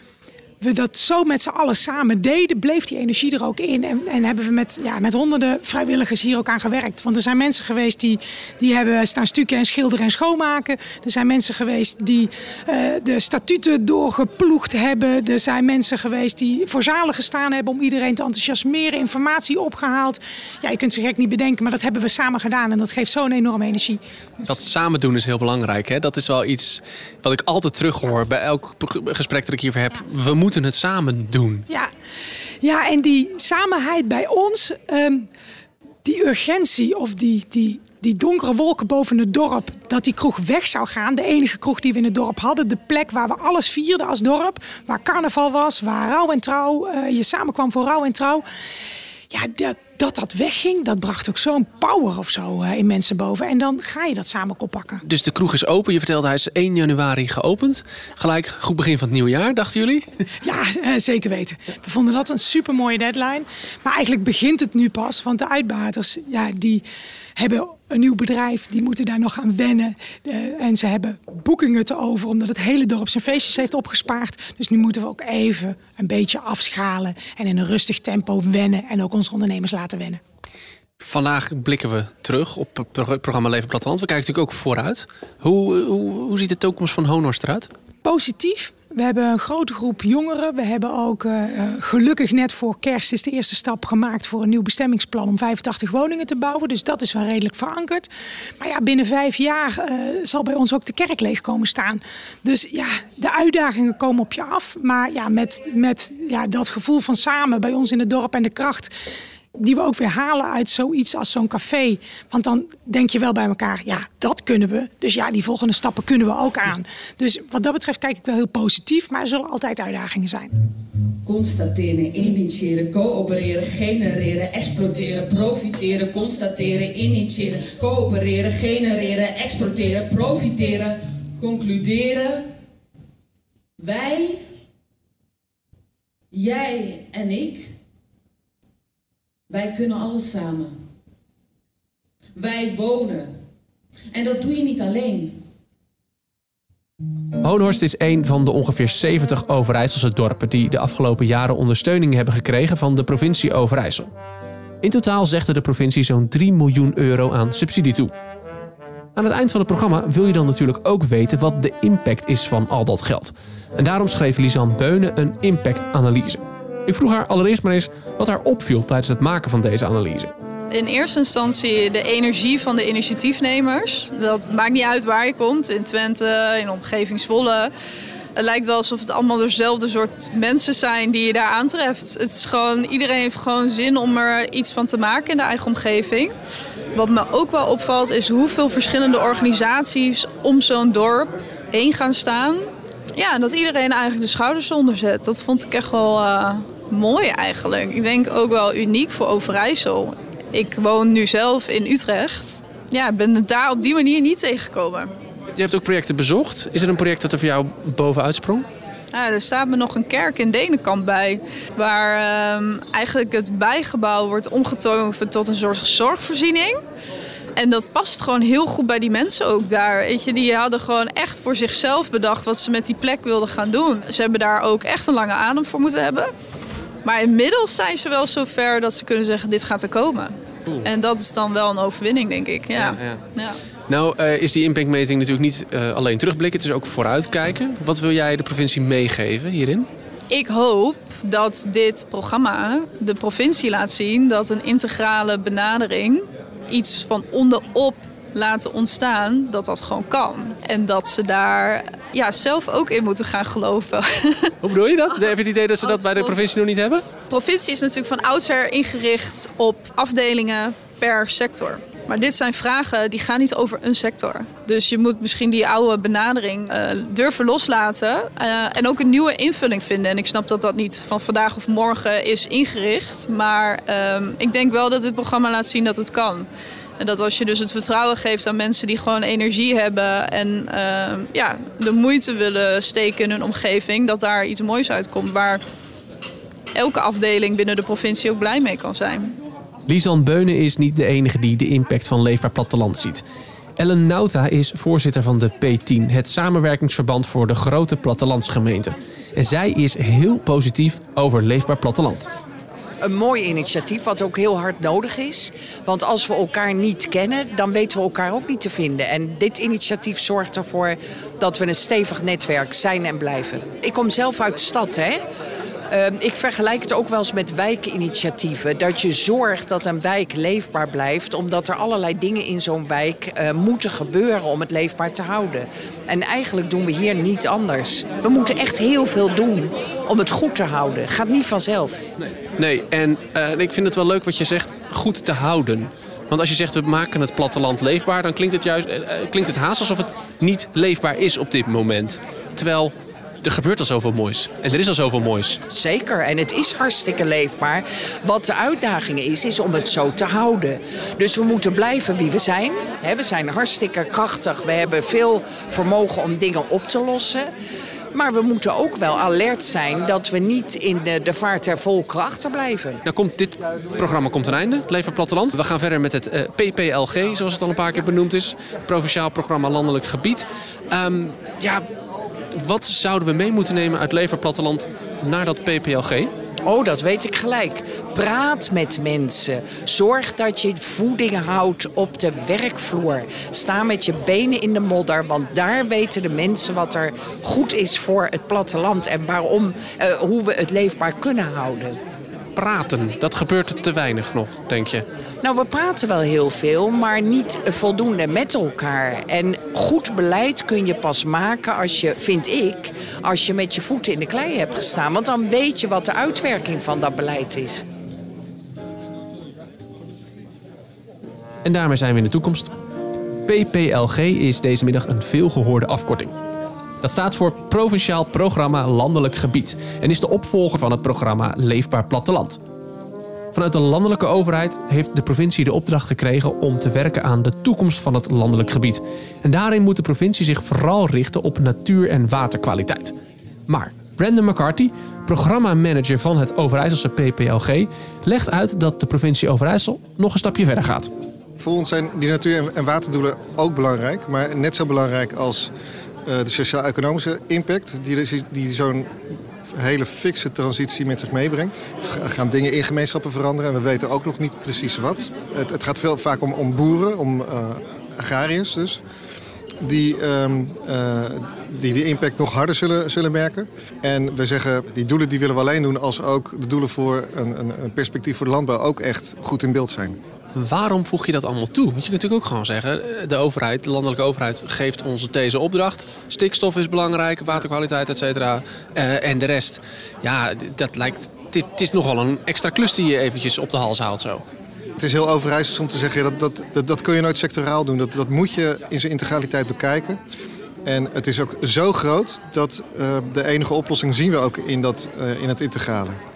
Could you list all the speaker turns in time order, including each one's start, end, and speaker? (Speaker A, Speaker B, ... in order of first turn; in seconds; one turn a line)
Speaker A: 0.6-24.0
Speaker B: 24.4-31.6
Speaker A: 32.6-35.3
Speaker A: 36.0-48.4
Speaker A: 49.3-55.0
Speaker B: 55.0-60.1
Speaker A: 60.4-66.8
Speaker A: 67.3-80.2
Speaker B: 81.0-87.7
Speaker A: 88.0-98.1
Speaker A: 98.6-108.9
Speaker A: 109.5-120.5
Speaker C: 121.2-132.5
Speaker C: 133.8-134.5
Speaker C: 136.3-137.8
Speaker C: 139.5-140.8
Speaker C: 142.3-143.4
Speaker C: 144.1-145.4
Speaker B: 147.4-154.1
Speaker B: 154.8-158.1
Speaker B: 159.2-170.3
Speaker D: 170.7-177.7
Speaker D: 178.3-186.3
Speaker D: 186.9-192.6
Speaker D: 193.2-205.1
Speaker B: 205.5-208.7
Speaker D: 209.1-216.8
Speaker D: 217.6-226.3
Speaker D: 227.0-230.3
Speaker D: 230.8-233.5
Speaker B: 232.8-233.2
Speaker B: 233.9-239.9
Speaker D: 240.3-254.5
Speaker B: 254.6-257.1
Speaker D: 257.3-276.5
Speaker D: 277.0-285.6
Speaker D: 286.7-289.3
Speaker B: 289.9-293.2
Speaker B: 293.8-302.3
Speaker E: 303.0-315.2
Speaker E: 315.9-332.0
Speaker B: 332.2-345.6
Speaker E: 345.7-357.5
Speaker E: 358.1-363.0
Speaker B: 363.0-371.8
Speaker B: 372.5-376.3
Speaker E: 376.6-392.0
Speaker B: 392.5-395.0
Speaker E: 395.4-407.8
Speaker B: 411.6-412.7
Speaker B: 413.5-416.3
Speaker B: 417.0-422.6
Speaker B: 423.5-433.1
Speaker B: 433.7-441.1
Speaker F: 441.6-445.7
Speaker F: 446.2-449.1
Speaker F: 449.7-459.0
Speaker F: 459.8-470.2
Speaker B: 470.5-484.4
Speaker F: 485.0-490.2
Speaker F: 490.8-496.2